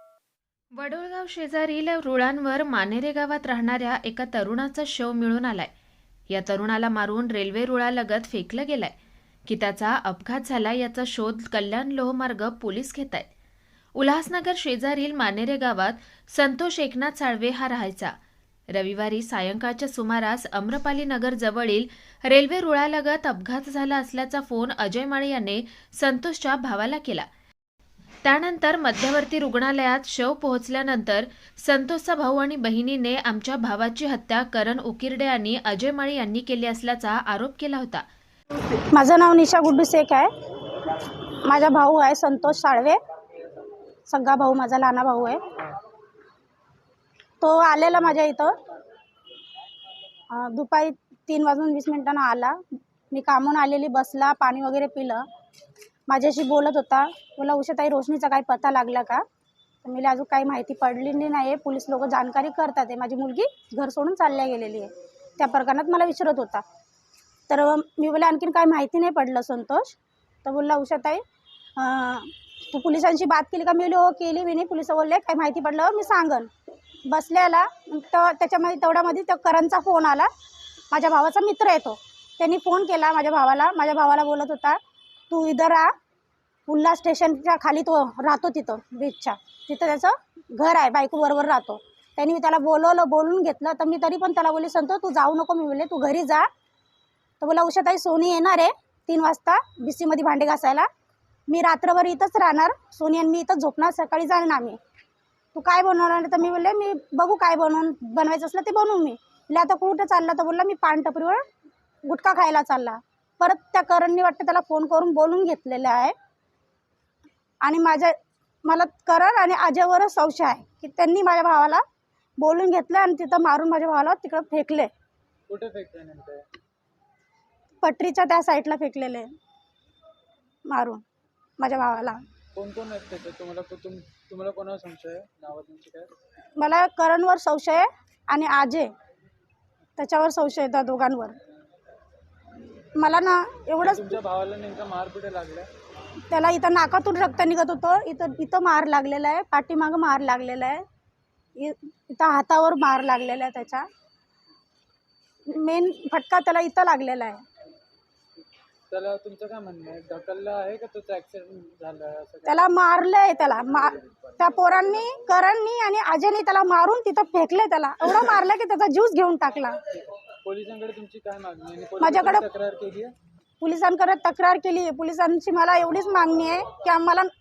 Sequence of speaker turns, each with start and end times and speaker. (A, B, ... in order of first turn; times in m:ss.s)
0:00.8-0:05.7 A
0:06.3-0:08.9 A
0:09.5-0:13.3 A
0:14.0-0:18.1 A
0:18.7-0:27.3 A
0:28.2-0:38.0 A
0:38.9-0:40.3 B
0:41.5-0:43.0 B
0:44.1-0:45.4 B
0:47.4-0:48.5 B
0:50.3-0:52.6 B
0:53.1-0:55.2 B
0:56.1-0:59.2 B
0:59.8-1:06.6 B
1:07.5-1:09.9 B
1:10.4-1:11.2 B
1:11.8-1:16.5 B
1:17.1-1:20.3 B
1:20.9-1:24.8 B
1:25.3-1:25.9 B
1:26.7-1:36.5 B
1:37.4-1:40.9 B
1:41.5-1:44.8 B
1:45.6-1:51.4 B
1:52.1-1:56.1 B
1:57.6-1:58.1 B
1:58.7-2:01.8 B
2:02.4-2:04.9 B
2:05.5-2:06.4 C
2:07.8-2:09.3 B
2:10.7-2:11.0 B
2:11.6-2:12.2 B
2:12.6-2:16.1 C
2:16.6-2:18.9 B
2:20.0-2:21.4 B
2:23.0-2:24.1 B
2:23.8-2:25.7 C
2:26.3-2:30.8 B
2:31.6-2:33.9 B
2:35.5-2:37.4 B
2:38.9-2:42.6 C
2:42.5-2:49.8 B
2:43.8-2:44.2 C
2:50.4-2:53.1 C
2:52.0-2:52.4 B
2:53.6-2:57.3 B